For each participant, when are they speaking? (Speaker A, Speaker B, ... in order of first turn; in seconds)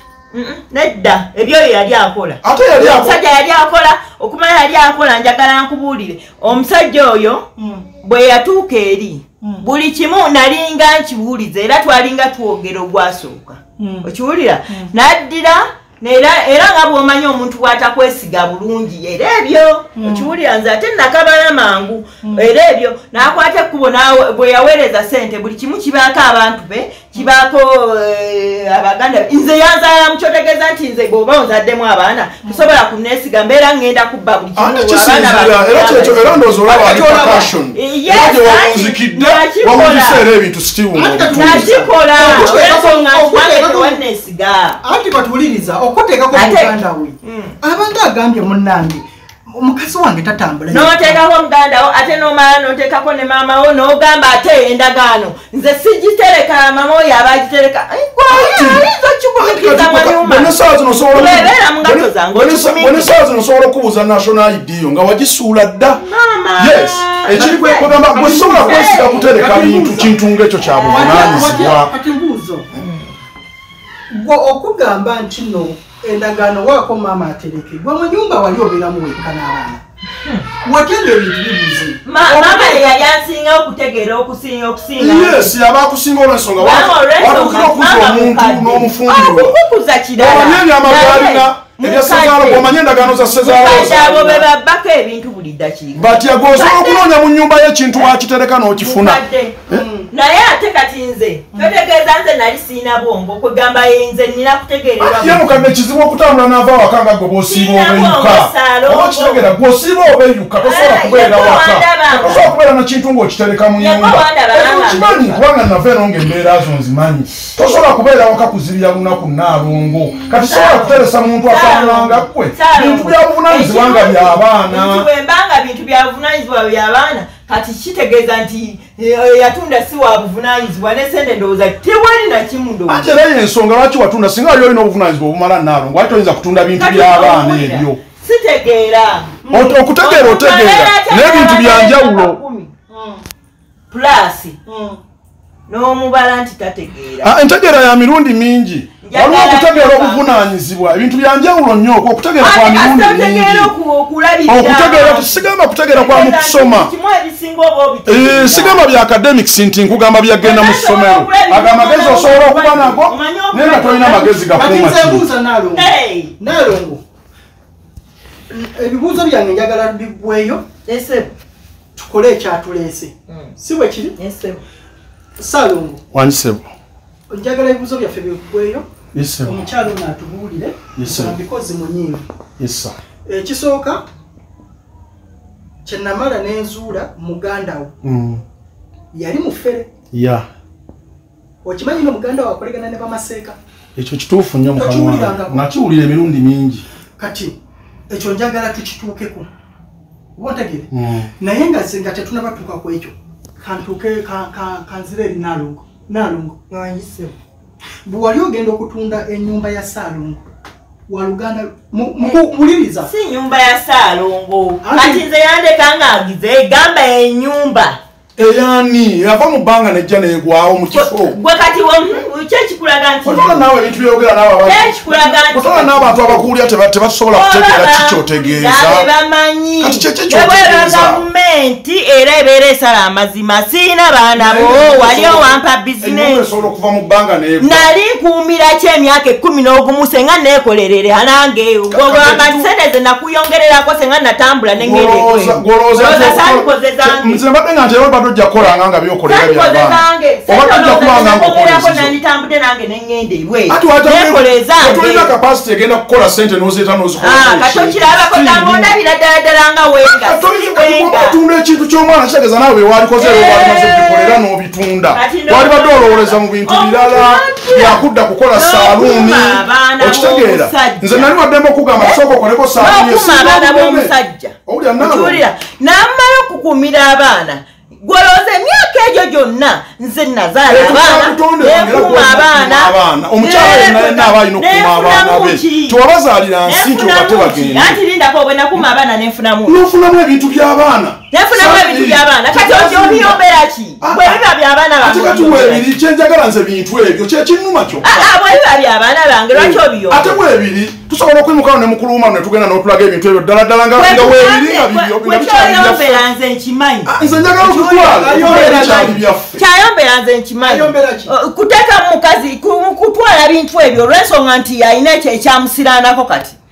Speaker A: 0.3-7.5, 8.0-40.2, 41.4-44.8, 46.3-47.5, 50.7-60.5, 61.1-63.2, 66.0-69.2, 70.7-71.7, 72.8-73.1, 82.1-85.5, 86.6-92.8, 93.4-97.1, 98.8-99.6, 100.1-105.6, 107.5-109.5, 110.6-112.5, 113.8-115.4, 120.3-133.1, 136.8-139.4, 140.0-142.7, 143.9-144.6, 145.7-147.3, 149.0-150.4, 152.4-158.8, 160.4-164.4, 165.8-166.3, 170.9-171.3, 174.2-174.6, 213.1-218.0, 220.9-223.6, 224.7-226.5, 227.3-236.4, 237.6-247.4, 249.3-255.3, 257.2-261.4, 263.2-264.4, 265.1-268.0, 268.5-271.3, 272.8-286.0, 286.7-289.9, 291.3-295.9, 298.0-300.4, 304.0-316.6
Speaker B: 2.4-3.2, 34.6-42.6, 58.3-58.9, 59.4-66.0, 66.6-71.9, 82.3-83.0, 85.0-89.6, 90.2-94.4, 96.0-99.8, 105.0-125.1, 132.9-138.0, 139.5-142.4, 147.2-153.7, 154.5-156.9, 158.1-165.3, 176.1-176.7, 179.1-179.6, 181.0-181.4, 182.6-183.0, 188.0-188.4, 190.1-190.5, 194.0-196.8, 200.9-201.3, 218.4-221.4, 223.2-229.1, 229.8-231.2, 234.4-237.9, 241.9-242.7, 244.8-252.1, 253.7-258.9, 260.1-274.1, 274.7-275.4, 280.7-288.0, 289.6-293.4, 294.0-294.4, 295.0-298.3, 299.5-306.2, 307.1-309.6
Speaker C: 7.6-7.8, 13.8-14.1, 20.0-20.3, 22.2-22.5, 36.7-37.5, 41.0-44.0, 44.8-51.2, 67.9-70.2, 70.8-72.7, 74.1-79.8, 80.6-82.0, 99.7-100.1, 139.4-139.8, 142.9-143.2, 144.7-145.0, 164.5-167.0, 168.5-170.7, 172.0-174.2, 175.4-176.0, 177.3-178.9, 179.4-182.2, 183.3-184.0, 185.8-187.9, 189.1-189.9, 191.6-193.6, 194.8-195.6, 197.2-197.5, 198.1-199.5, 200.4-200.9, 201.4-207.3, 208.1-210.4, 211.1-213.1, 214.8-215.2, 308.1-309.2, 310.6-311.3